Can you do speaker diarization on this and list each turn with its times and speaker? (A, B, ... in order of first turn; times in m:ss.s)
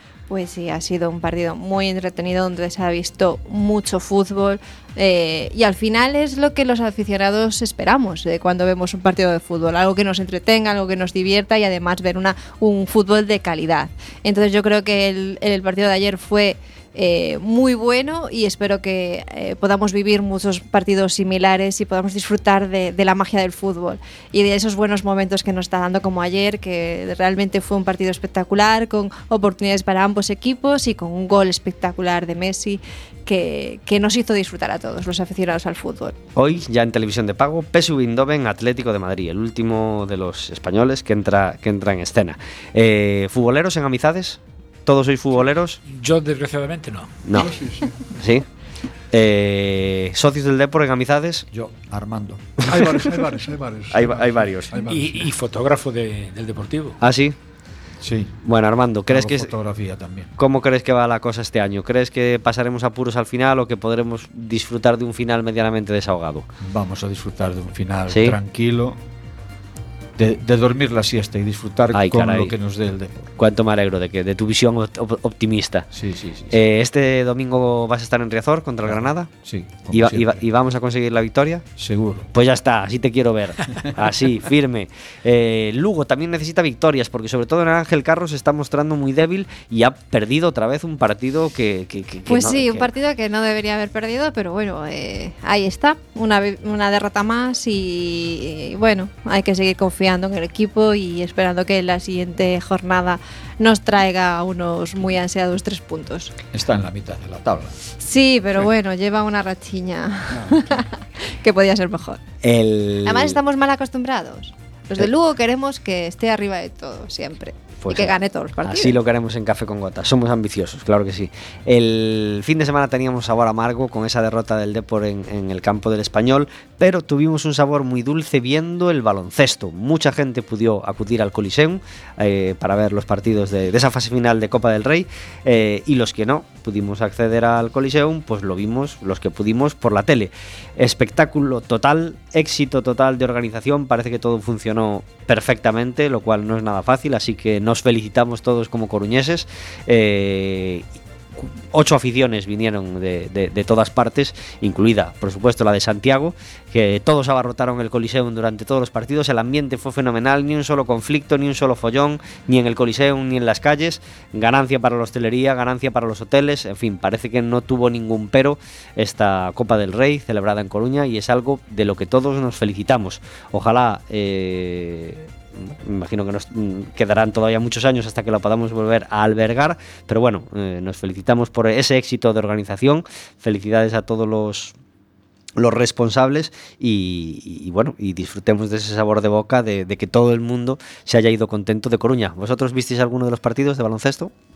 0:00.3-0:36.2 A
0:36.4-0:45.8 B
0:45.9-0:47.1 C
0:47.2-0:48.5 B
0:47.3-0:48.0 D
0:49.1-0:51.5 B
0:51.5-0:52.6 E
0:52.6-0:55.3 D
0:52.7-0:53.2 B
0:53.9-0:54.7 B
0:54.9-0:57.0 C
0:57.0-0:57.4 B
0:58.0-0:58.4 E
0:58.4-0:59.5 B
0:59.1-1:00.3 E
1:00.4-1:06.5 B
1:06.6-1:09.0 E
1:08.1-1:08.4 B
1:10.2-1:13.3 E
1:11.9-1:12.5 B
1:13.4-1:15.9 B
1:15.9-1:16.6 E
1:16.5-1:19.3 B
1:18.8-1:20.4 E
1:19.9-1:21.7 B
1:21.8-1:22.3 E
1:22.3-1:32.9 B
1:32.3-1:46.3 A
1:46.5-1:47.8 E
1:48.0-1:52.2 A
1:50.3-1:50.6 D
1:52.4-1:53.4 B
1:53.0-1:59.0 A
1:57.8-2:30.9 B
2:31.4-3:04.8 B
3:05.6-3:14.3 B